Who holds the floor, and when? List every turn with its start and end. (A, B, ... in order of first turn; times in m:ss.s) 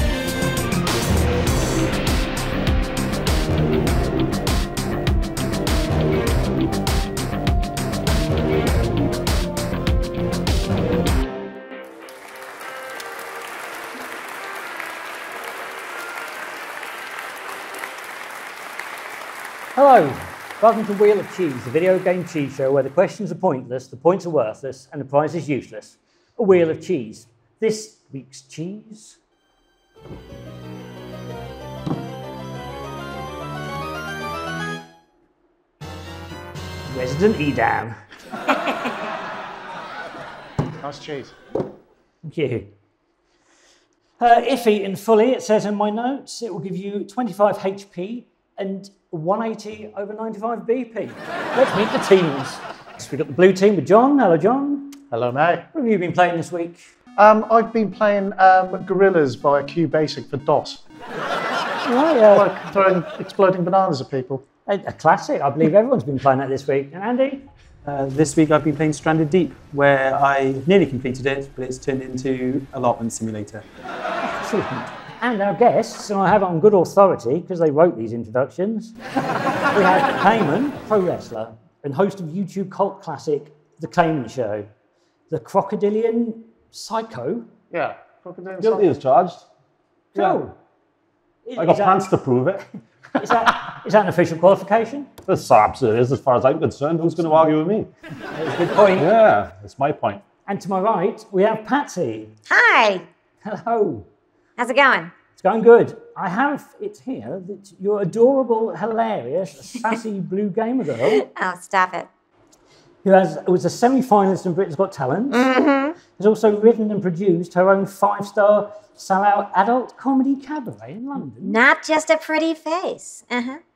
0:19.8-0:29.2 A
0:36.9-0:38.0 A
0:40.8-0:41.4 B
0:42.2-0:42.7 A
0:44.2-0:55.0 A
0:55.1-0:55.7 B
0:55.7-0:56.9 A
0:57.2-1:00.8 B
1:01.8-1:02.6 A
1:02.3-1:04.4 B
1:04.7-1:07.5 A
1:07.8-1:13.6 C
1:14.2-1:19.0 A
1:19.7-1:24.7 A
1:25.3-1:27.5 A
1:27.7-1:28.9 B
1:28.6-1:29.5 D
1:30.2-1:30.4 D
1:30.2-1:30.6 A
1:31.5-1:32.1 A
1:31.6-1:32.6 D
1:33.2-1:35.1 A
1:35.3-1:37.9 D
1:38.3-1:39.1 A
1:39.0-1:40.2 D
1:40.4-1:42.3 A
1:42.5-1:43.1 E
1:43.4-1:44.1 A
1:44.6-1:45.1 E
1:45.4-1:51.3 A
1:51.2-1:52.1 E
1:53.0-1:55.5 A
1:55.3-1:56.0 E
1:56.1-2:01.6 A
2:01.4-2:03.6 E